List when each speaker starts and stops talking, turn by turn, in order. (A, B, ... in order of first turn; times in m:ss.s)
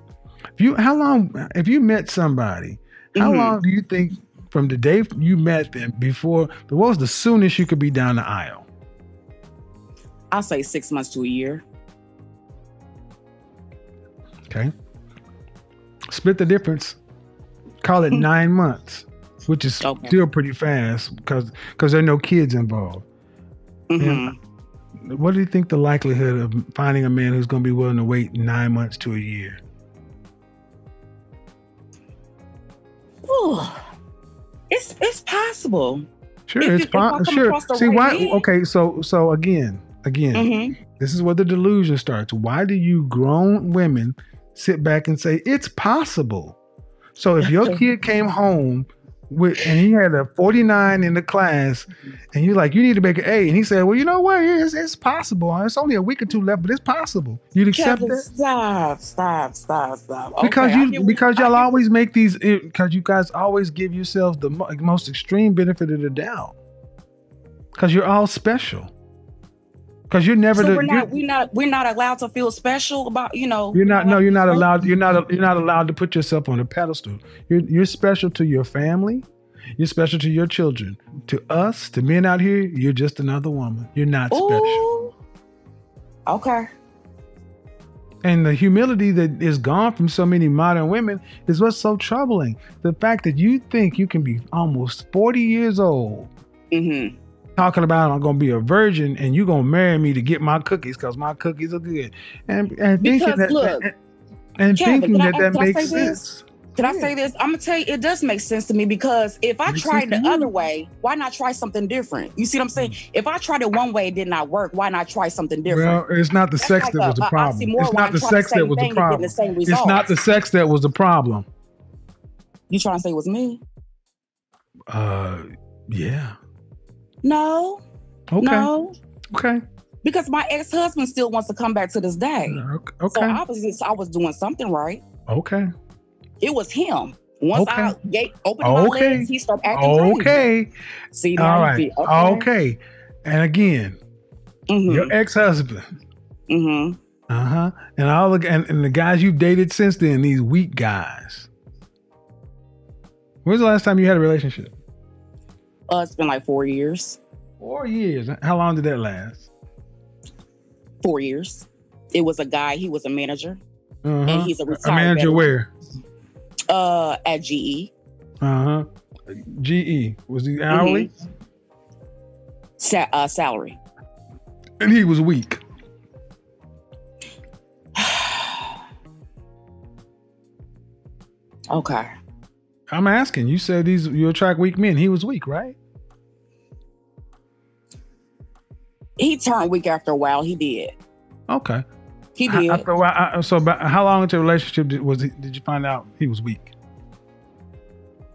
0:00.6-0:08.6 A
0:03.2-0:03.6 B
0:10.3-0:11.6 B
0:16.1-0:17.0 A
0:17.8-0:23.0 A
0:19.8-0:20.2 B
0:23.9-0:24.3 B
0:24.0-0:24.3 A
0:25.1-0:29.6 A
0:33.2-0:33.8 B
0:34.7-0:36.1 B
0:36.5-0:46.6 A
0:36.6-0:38.4 B
0:40.3-0:40.8 B
0:47.2-0:58.3 A
0:47.4-0:47.8 B
0:57.7-1:01.8 B
1:00.4-1:06.5 A
1:07.7-1:08.9 A
1:10.1-1:11.1 A
1:10.5-1:14.7 B
1:13.7-1:24.8 A
1:24.3-1:25.1 B
1:26.3-1:26.7 B
1:28.2-1:36.3 A
1:36.7-1:37.2 B
1:37.6-1:43.9 A
1:43.0-1:43.9 B
1:44.6-1:47.1 A
1:44.8-1:46.2 B
1:46.8-1:56.0 B
1:49.7-1:50.5 A
1:55.7-2:01.5 A
1:56.6-2:00.1 B
2:02.7-2:03.6 B
2:04.9-2:06.4 A
2:07.2-2:07.8 B
2:08.3-2:08.7 A
2:08.4-2:09.0 B
2:09.3-2:09.6 A
2:10.0-2:15.0 B
2:12.5-2:13.4 A
2:15.3-2:15.7 A
2:16.4-2:20.4 B
2:17.5-2:17.9 A
2:18.6-2:20.7 A
2:21.1-2:22.5 B
2:21.4-2:24.0 A
2:24.7-2:25.1 B
2:24.9-2:25.8 A
2:26.5-2:27.0 B
2:27.3-2:31.5 A
2:33.4-2:34.7 A
2:35.9-2:37.2 B
2:37.6-2:39.5 A
2:41.0-2:43.6 B
2:44.0-2:45.7 A
2:44.2-2:45.5 B
2:46.7-2:47.9 B
2:48.4-2:51.1 A
2:50.7-2:51.1 B
2:52.8-2:53.8 B
2:54.8-2:55.6 A
2:58.0-2:58.7 B
3:01.7-3:02.1 B
3:02.9-3:05.8 A
3:09.2-3:10.9 B
3:11.5-3:11.8 A
3:12.4-3:12.8 B
3:12.5-3:16.7 A